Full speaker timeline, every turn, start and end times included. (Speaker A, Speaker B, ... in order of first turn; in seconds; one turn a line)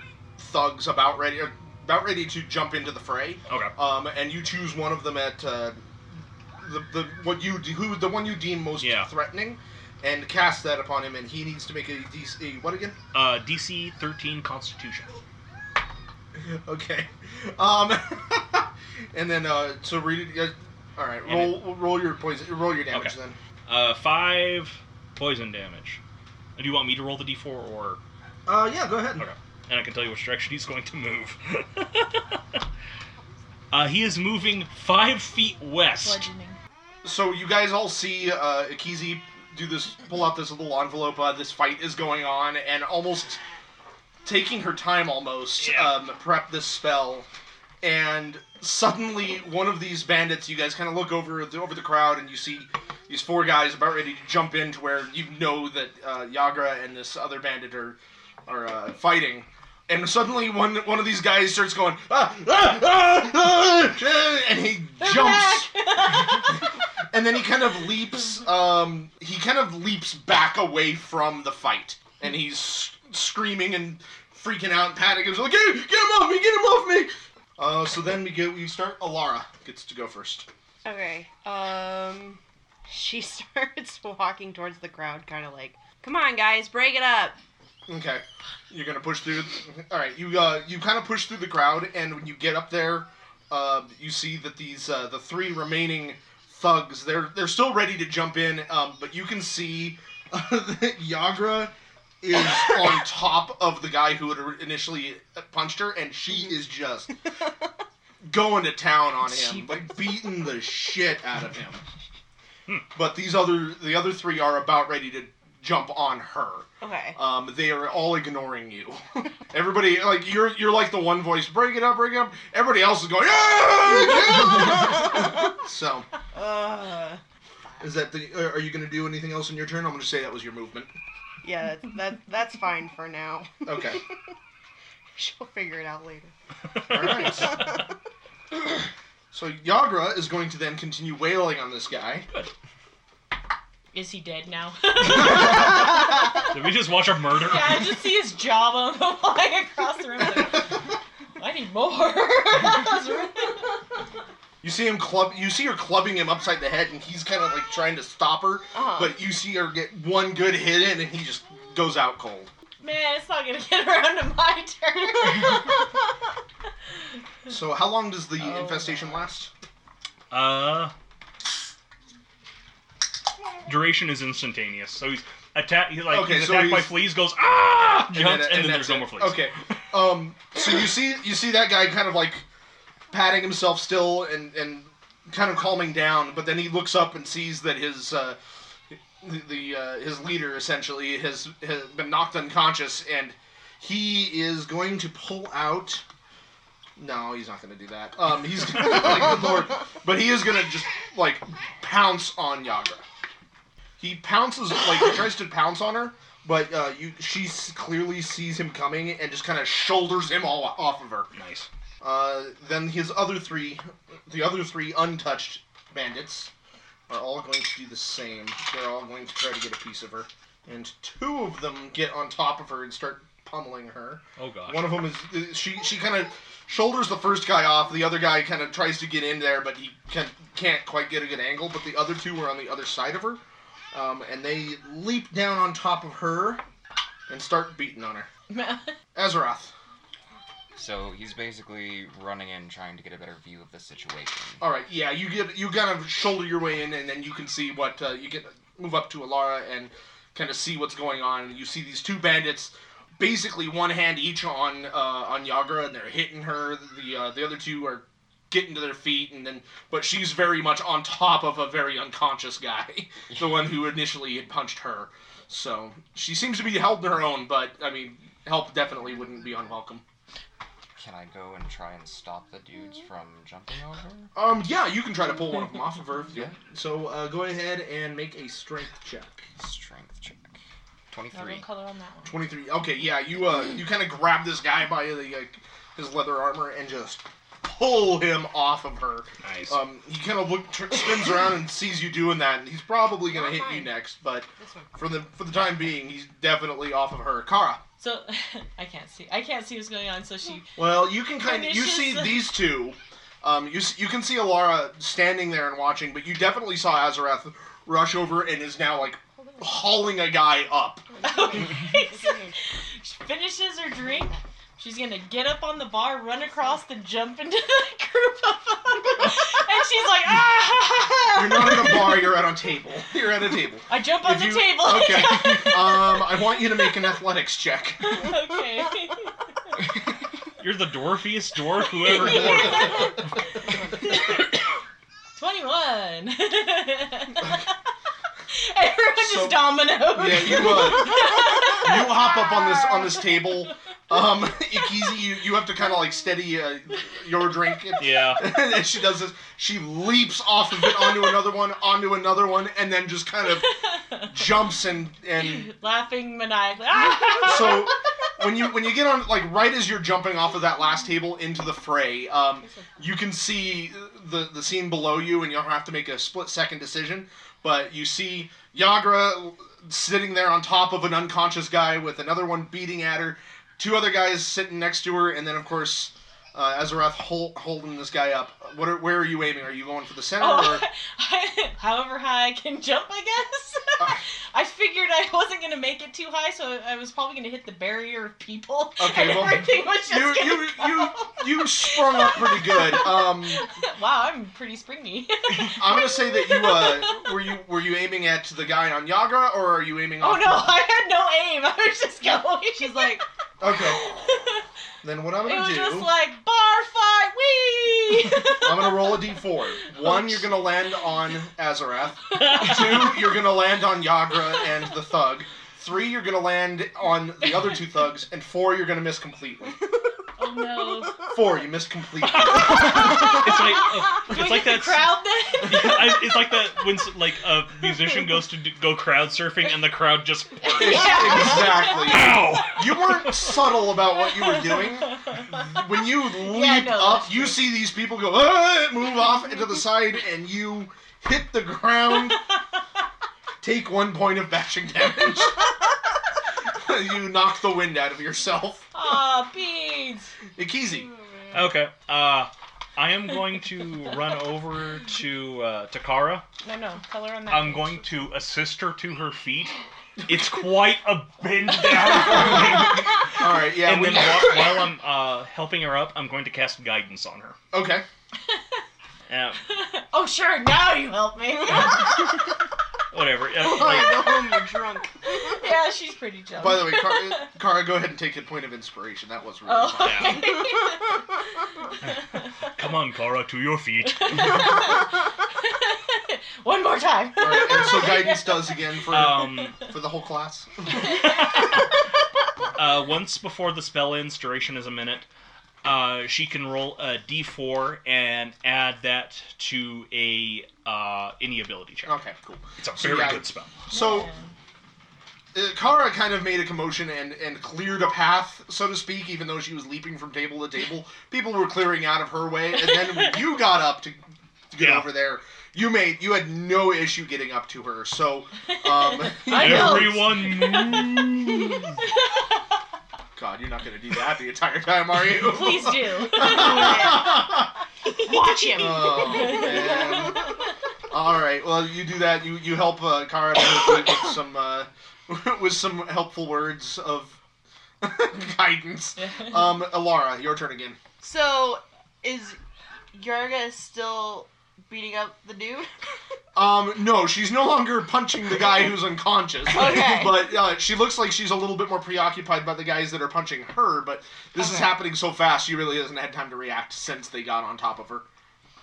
Speaker A: 0.4-5.8
Speaker B: 3.5-3.7
Speaker A: 6.6-13.0
Speaker B: 8.8-9.1
Speaker B: 13.1-15.1
Speaker A: 16.4-23.4
Speaker B: 21.2-21.7
Speaker B: 23.6-26.0
Speaker B: 26.6-28.0
Speaker A: 28.5-29.3
Speaker B: 29.2-32.6
Speaker B: 33.7-36.2
Speaker C: 36.0-36.6
Speaker A: 37.0-43.4
Speaker A: 44.2-47.3
Speaker B: 45.6-45.9
Speaker A: 47.8-80.5
Speaker C: 65.0-66.6
Speaker D: 80.8-87.4
Speaker A: 87.9-107.2
Speaker A: 108.2-111.8
Speaker C: 109.2-110.1
Speaker A: 112.9-126.0
Speaker D: 116.8-117.2
Speaker D: 126.3-127.2
Speaker A: 127.8-130.9
Speaker D: 131.4-134.0
Speaker A: 133.6-134.0
Speaker D: 135.2-136.3
Speaker A: 136.9-137.7
Speaker A: 139.3-142.3
Speaker C: 143.9-146.5
Speaker B: 145.1-147.9
Speaker C: 147.3-153.8
Speaker A: 154.6-162.5
Speaker D: 158.7-159.2
Speaker C: 162.8-165.9
Speaker A: 167.5-169.5
Speaker D: 168.4-169.1
Speaker B: 170.3-170.9
Speaker B: 173.7-179.4
Speaker A: 176.1-176.9
Speaker A: 178.1-182.4
Speaker A: 183.1-188.4
Speaker A: 188.9-196.0
Speaker A: 197.0-203.0
Speaker A: 204.0-211.3
Speaker B: 211.3-211.7
Speaker A: 212.0-216.5
Speaker A: 217.1-233.4
Speaker B: 224.4-225.0
Speaker A: 233.9-236.6
Speaker A: 237.3-238.3
Speaker C: 238.5-238.9
Speaker A: 239.1-239.7
Speaker E: 240.8-244.6
Speaker A: 244.6-270.0
Speaker E: 270.9-274.3
Speaker A: 274.3-279.5
Speaker E: 279.6-281.6
Speaker C: 281.3-282.4
Speaker A: 282.2-297.8
Speaker B: 289.4-289.8
Speaker D: 293.3-293.9
Speaker D: 294.6-294.9
Speaker C: 298.0-300.8
Speaker A: 300.8-311.1
Speaker C: 301.3-302.5
Speaker D: 311.1-312.6
Speaker C: 311.2-322.3
Speaker A: 321.3-328.3
Speaker C: 323.9-326.7
Speaker C: 328.0-329.7
Speaker B: 330.6-333.1
Speaker C: 332.0-334.4
Speaker C: 335.4-337.7
Speaker C: 338.5-343.7
Speaker A: 339.2-355.7
Speaker B: 348.0-348.4
Speaker C: 353.5-354.5
Speaker C: 355.4-358.0
Speaker A: 357.4-380.9
Speaker C: 380.4-397.5
Speaker A: 389.0-393.7
Speaker A: 395.5-400.7
Speaker C: 400.2-404.6
Speaker D: 402.7-403.2
Speaker A: 403.6-404.4
Speaker A: 405.0-406.1
Speaker C: 405.4-410.5
Speaker A: 408.6-419.8
Speaker B: 412.3-412.9
Speaker C: 412.4-413.1
Speaker C: 417.4-417.8
Speaker C: 420.4-421.3
Speaker A: 421.3-423.3
Speaker B: 422.2-433.5
Speaker C: 422.6-426.7
Speaker C: 427.8-428.3
Speaker C: 430.6-432.4
Speaker A: 430.7-442.5
Speaker C: 434.2-437.7
Speaker A: 443.6-445.7
Speaker A: 446.6-448.9
Speaker C: 448.9-450.3
Speaker A: 450.6-451.1
Speaker D: 451.1-451.6
Speaker B: 451.5-456.4
Speaker C: 456.6-458.1
Speaker B: 457.5-467.6
Speaker A: 462.3-464.5
Speaker A: 467.7-468.1
Speaker B: 469.3-469.6
Speaker C: 469.6-472.5
Speaker B: 473.1-474.4
Speaker D: 473.5-475.5
Speaker C: 475.2-477.5
Speaker A: 476.6-480.5
Speaker C: 479.6-481.2
Speaker B: 482.0-484.8
Speaker C: 484.2-489.1
Speaker A: 487.4-491.0
Speaker B: 489.1-489.8
Speaker B: 490.9-492.0
Speaker C: 491.2-491.6
Speaker B: 492.7-495.3
Speaker B: 495.8-502.1
Speaker A: 502.1-504.3
Speaker B: 502.8-503.8
Speaker C: 503.9-504.5
Speaker A: 505.5-514.2
Speaker C: 512.8-513.4
Speaker A: 514.7-520.5
Speaker B: 514.8-515.1
Speaker C: 518.8-521.3
Speaker B: 519.5-522.0
Speaker C: 522.0-522.6
Speaker A: 523.4-527.7
Speaker C: 525.3-527.4
Speaker D: 526.4-527.5
Speaker C: 528.1-530.4
Speaker D: 528.2-530.4
Speaker A: 528.7-530.5
Speaker A: 531.1-537.4
Speaker A: 538.0-541.0
Speaker C: 539.1-539.8
Speaker D: 541.2-542.6
Speaker D: 543.1-545.9
Speaker A: 546.5-558.2
Speaker D: 549.6-550.5
Speaker D: 554.6-555.0